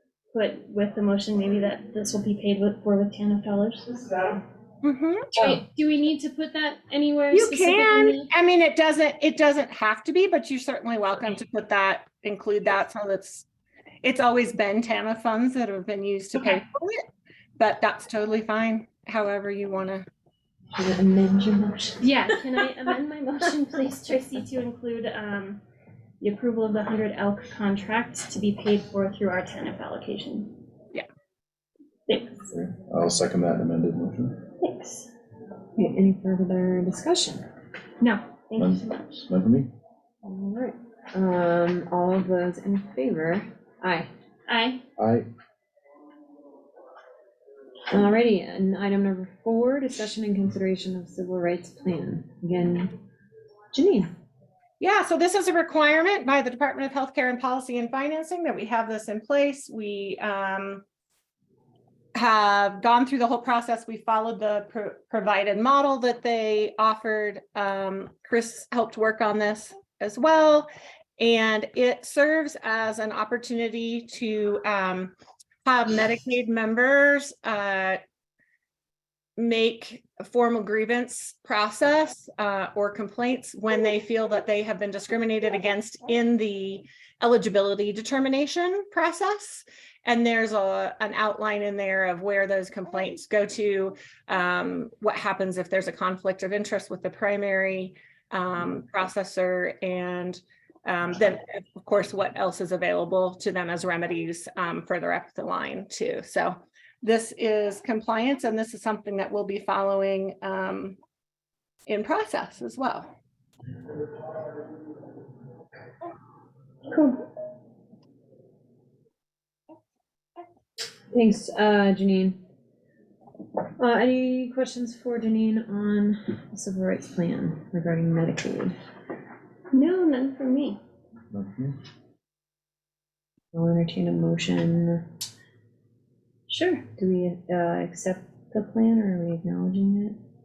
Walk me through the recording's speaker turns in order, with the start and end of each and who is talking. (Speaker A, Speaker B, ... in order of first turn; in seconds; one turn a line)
Speaker A: 0.3-4.0
Speaker B: 4.8-5.2
Speaker A: 5.3-8.3
Speaker B: 7.3-13.4
Speaker B: 14.0-17.0
Speaker B: 17.6-20.1
Speaker C: 20.7-22.1
Speaker A: 22.0-25.6
Speaker A: 26.2-30.5
Speaker A: 32.1-32.4
Speaker D: 32.5-34.4
Speaker A: 34.6-35.1
Speaker C: 35.8-37.4
Speaker A: 38.0-39.2
Speaker D: 38.6-39.7
Speaker C: 40.2-44.1
Speaker A: 44.5-44.8
Speaker D: 45.0-45.3
Speaker C: 47.9-53.0
Speaker C: 53.7-54.1
Speaker B: 54.8-60.8
Speaker B: 62.1-78.0
Speaker B: 79.4-111.0
Speaker B: 111.8-113.1
Speaker A: 116.9-117.2
Speaker C: 121.1-122.4
Speaker C: 123.8-128.7
Speaker A: 129.7-130.8
Speaker D: 131.3-131.7
Speaker C: 133.5-135.0
Speaker A: 136.5-136.8
Speaker C: 137.0-140.2